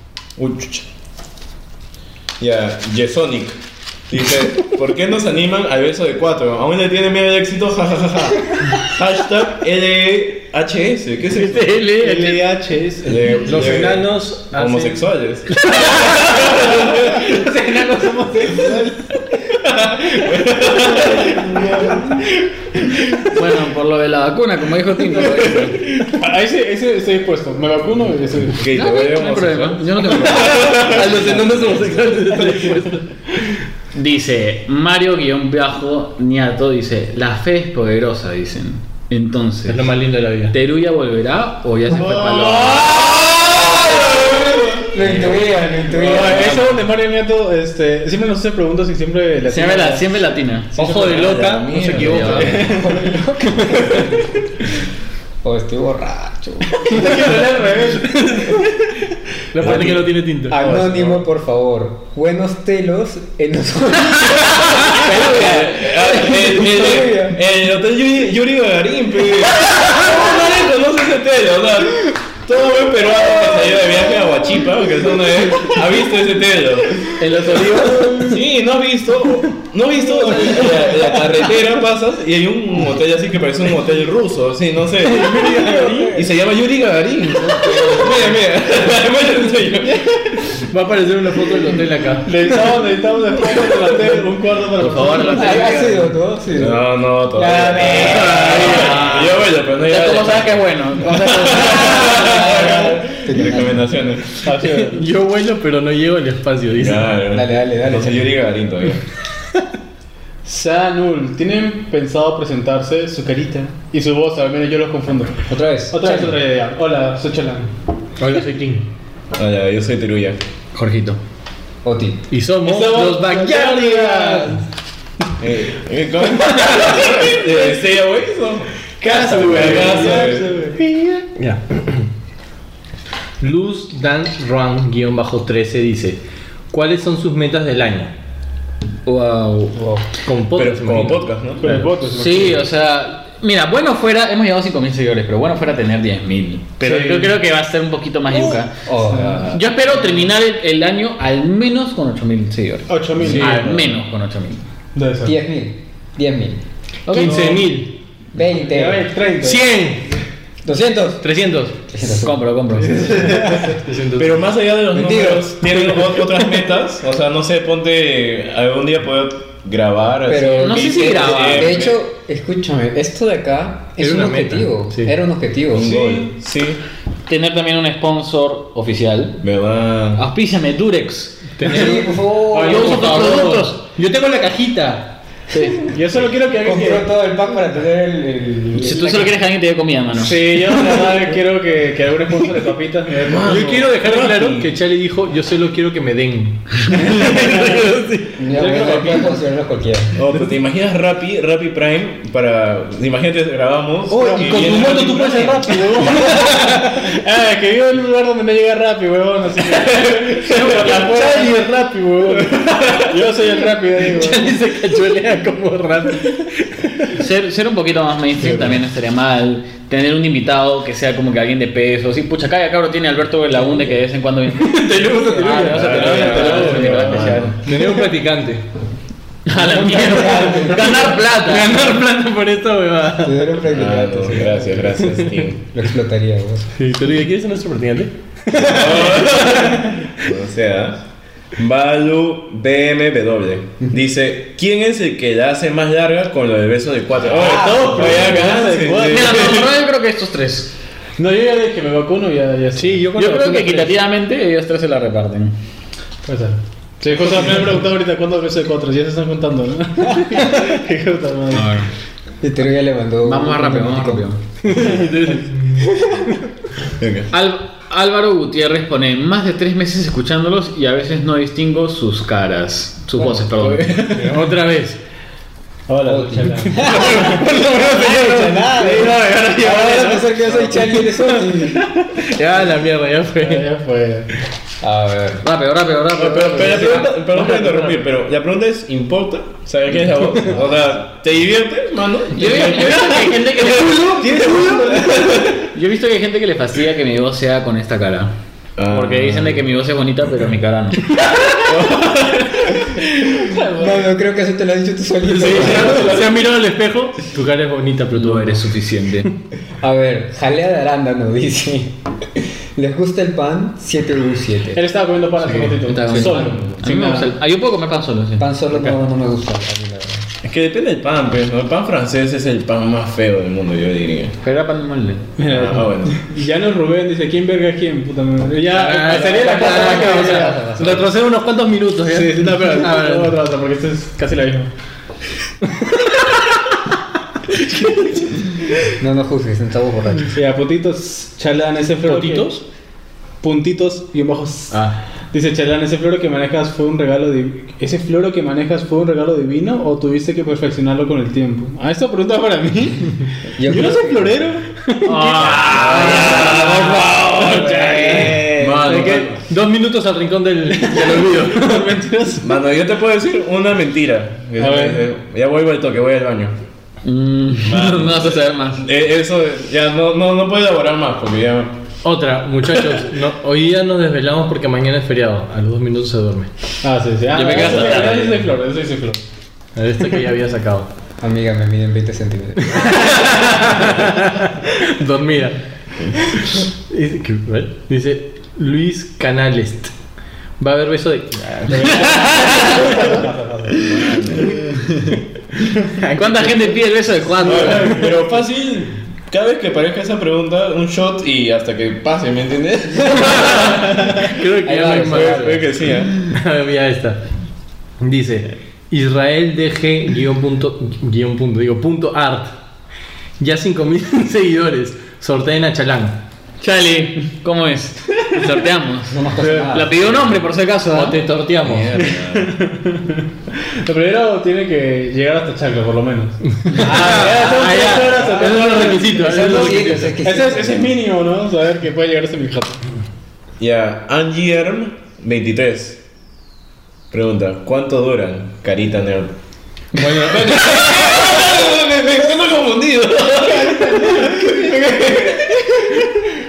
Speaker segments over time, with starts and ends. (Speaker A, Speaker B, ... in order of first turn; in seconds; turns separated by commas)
Speaker A: 0.4-0.8, Speaker A: 2.4-3.6, Speaker A: 4.1-11.8, Speaker B: 11.3-12.4, Speaker C: 12.0-13.4, Speaker A: 13.0-17.4, Speaker D: 13.3-15.1, Speaker B: 15.6-16.6, Speaker C: 16.5-19.2, Speaker A: 19.5-22.2, Speaker C: 21.1-22.2, Speaker A: 22.8-23.3, Speaker B: 23.3-25.8, Speaker C: 25.9-28.6, Speaker A: 28.5-32.2, Speaker B: 28.7-31.1, Speaker D: 30.4-33.4, Speaker B: 33.9-39.9, Speaker D: 39.7-40.5, Speaker B: 40.5-43.1, Speaker A: 42.0-45.0, Speaker C: 42.2-42.9, Speaker E: 43.5-44.2, Speaker E: 44.8-46.6, Speaker B: 45.0-45.3, Speaker C: 45.9-50.2, Speaker B: 46.2-46.6, Speaker B: 49.5-50.8, Speaker D: 50.8-52.8, Speaker A: 50.8-52.8, Speaker B: 52.0-52.6, Speaker C: 52.2-53.0, Speaker E: 52.5-54.3, Speaker E: 55.4-57.3, Speaker C: 56.9-58.4, Speaker D: 57.1-58.8, Speaker D: 59.5-60.6, Speaker E: 59.6-67.4, Speaker C: 59.6-60.0, Speaker C: 60.5-61.2, Speaker A: 64.7-77.1, Speaker B: 64.9-65.8, Speaker C: 77.2-78.3, Speaker D: 77.2-78.4, Speaker A: 78.2-85.6, Speaker C: 80.2-81.1, Speaker D: 80.3-80.8, Speaker E: 85.1-86.4, Speaker D: 85.2-86.1, Speaker C: 85.3-85.9, Speaker A: 86.1-90.5, Speaker E: 87.4-88.3, Speaker D: 90.7-92.3, Speaker C: 92.2-96.0, Speaker B: 94.8-96.0, Speaker E: 95.2-98.6, Speaker A: 96.6-104.4, Speaker C: 97.7-98.5, Speaker B: 98.1-102.6, Speaker D: 98.3-98.9, Speaker E: 102.0-103.9, Speaker C: 104.4-105.1, Speaker D: 104.6-107.1, Speaker A: 106.8-109.0, Speaker E: 107.3-108.3, Speaker C: 110.5-117.7, Speaker E: 115.5-116.4, Speaker D: 118.2-118.9, Speaker A: 119.3-120.4, Speaker B: 120.7-121.2, Speaker E: 121.8-122.3, Speaker D: 122.3-124.7, Speaker C: 122.6-124.6, Speaker A: 125.4-130.6, Speaker C: 129.0-130.8, Speaker D: 129.0-132.1, Speaker D: 133.4-136.2, Speaker D: 136.7-138.1, Speaker B: 139.1-139.8, Speaker E: 139.8-140.1, Speaker D: 140.2-141.8, Speaker A: 140.5-141.8, Speaker C: 141.6-142.7, Speaker B: 142.1-148.7, Speaker C: 146.8-147.3, Speaker E: 148.8-149.6, Speaker C: 149.1-149.5, Speaker B: 149.4-154.6, Speaker C: 152.9-153.7, Speaker A: 153.2-153.9, Speaker D: 153.2-153.7, Speaker C: 154.9-155.3, Speaker E: 155.2-156.6, Speaker B: 157.1-157.5, Speaker D: 157.1-157.9, Speaker C: 157.2-157.6, Speaker E: 158.3-159.1, Speaker C: 158.7-159.7, Speaker D: 159.4-160.1, Speaker E: 160.7-161.3, Speaker D: 161.2-161.8, Speaker E: 161.9-162.4, Speaker B: 162.1-163.3, Speaker C: 162.8-163.8, Speaker D: 163.1-164.4, Speaker A: 164.2-172.0, Speaker E: 164.9-165.7, Speaker E: 170.3-175.9, Speaker B: 170.5-171.8, Speaker D: 174.0-175.1, Speaker A: 175.7-176.8, Speaker C: 175.8-176.3, Speaker B: 177.3-179.4, Speaker A: 179.4-180.2, Speaker B: 180.2-181.9, Speaker D: 181.6-185.2, Speaker E: 181.7-183.3, Speaker B: 182.5-183.8, Speaker C: 185.8-187.1, Speaker E: 186.6-189.4, Speaker B: 188.8-190.6, Speaker C: 190.2-193.7, Speaker A: 193.2-194.7, Speaker D: 193.3-199.0, Speaker C: 197.1-197.8, Speaker E: 198.4-200.2, Speaker C: 198.5-199.4, Speaker A: 200.2-205.9, Speaker D: 204.1-207.1, Speaker C: 204.2-214.5, Speaker B: 210.5-211.1, Speaker D: 210.6-212.4, Speaker A: 212.5-213.1, Speaker D: 214.0-217.2, Speaker B: 217.1-227.6, Speaker D: 224.5-228.7, Speaker A: 225.6-227.6, Speaker C: 226.0-227.4, Speaker B: 229.5-231.9, Speaker E: 229.5-231.1, Speaker D: 230.8-233.6, Speaker E: 233.2-236.7, Speaker A: 233.7-235.6, Speaker D: 236.8-239.9, Speaker A: 238.5-241.0, Speaker A: 241.6-249.7, Speaker C: 247.3-249.5, Speaker E: 247.4-248.0, Speaker B: 249.0-250.7, Speaker C: 251.2-253.2, Speaker D: 252.8-254.0, Speaker B: 253.1-255.6, Speaker C: 256.2-261.8, Speaker B: 261.5-261.9, Speaker E: 262.4-264.3, Speaker B: 263.2-264.4, Speaker D: 264.6-265.8, Speaker C: 264.8-265.4, Speaker A: 267.0-267.3, Speaker B: 267.3-274.0, Speaker A: 273.6-274.4, Speaker D: 273.9-275.0, Speaker C: 275.9-277.3, Speaker E: 276.1-281.9, Speaker D: 276.6-280.3, Speaker C: 278.8-280.8, Speaker D: 282.0-283.7, Speaker C: 283.4-284.3, Speaker E: 284.8-285.4, Speaker B: 285.4-287.9, Speaker A: 286.1-295.6, Speaker B: 292.3-298.3, Speaker C: 294.1-295.6, Speaker A: 298.8-299.6, Speaker B: 298.9-301.1, Speaker A: 301.6-303.0, Speaker C: 303.4-304.0, Speaker E: 303.7-306.2, Speaker D: 305.2-308.7, Speaker A: 305.5-306.3, Speaker B: 308.1-309.3, Speaker E: 309.8-312.0, Speaker E: 312.8-314.8, Speaker C: 314.7-317.3, Speaker D: 315.4-316.2, Speaker B: 315.9-318.5, Speaker A: 316.5-316.8, Speaker E: 318.4-320.3, Speaker A: 320.4-324.4, Speaker B: 324.4-325.3, Speaker C: 325.4-330.6, Speaker A: 325.4-326.3, Speaker D: 328.7-333.4, Speaker E: 329.1-331.1, Speaker C: 332.1-334.7, Speaker D: 337.6-338.2, Speaker E: 338.9-340.3, Speaker C: 340.3-342.6, Speaker D: 342.1-342.6, Speaker C: 343.4-359.2, Speaker E: 353.6-354.5, Speaker D: 355.0-356.7, Speaker B: 355.1-358.9, Speaker A: 355.7-357.0, Speaker D: 357.4-362.1, Speaker A: 358.4-359.4, Speaker C: 360.7-362.4, Speaker A: 362.4-366.6, Speaker C: 364.6-365.1, Speaker B: 367.0-368.8, Speaker A: 367.6-371.7, Speaker D: 372.0-376.5, Speaker C: 376.8-379.2, Speaker B: 377.3-378.4, Speaker D: 379.8-380.9, Speaker E: 381.2-383.0, Speaker D: 382.7-385.6, Speaker D: 386.2-389.9, Speaker D: 390.6-393.1, Speaker C: 391.7-393.9, Speaker A: 393.8-394.6, Speaker D: 395.9-398.1, Speaker B: 396.2-398.0, Speaker A: 397.4-404.2, Speaker D: 403.2-405.7, Speaker E: 404.6-405.7, Speaker A: 404.9-406.2, Speaker D: 406.2-407.2, Speaker D: 408.0-412.6, Speaker D: 413.4-416.2, Speaker B: 416.6-421.2, Speaker E: 419.1-420.2, Speaker C: 419.4-419.7, Speaker D: 420.9-422.0, Speaker A: 421.6-422.6, Speaker C: 422.0-432.8, Speaker D: 426.7-430.2, Speaker B: 426.8-428.3, Speaker E: 428.1-431.0, Speaker A: 433.6-436.0, Speaker A: 437.1-439.3, Speaker A: 440.0-446.1, Speaker D: 440.1-440.3, Speaker C: 443.6-444.2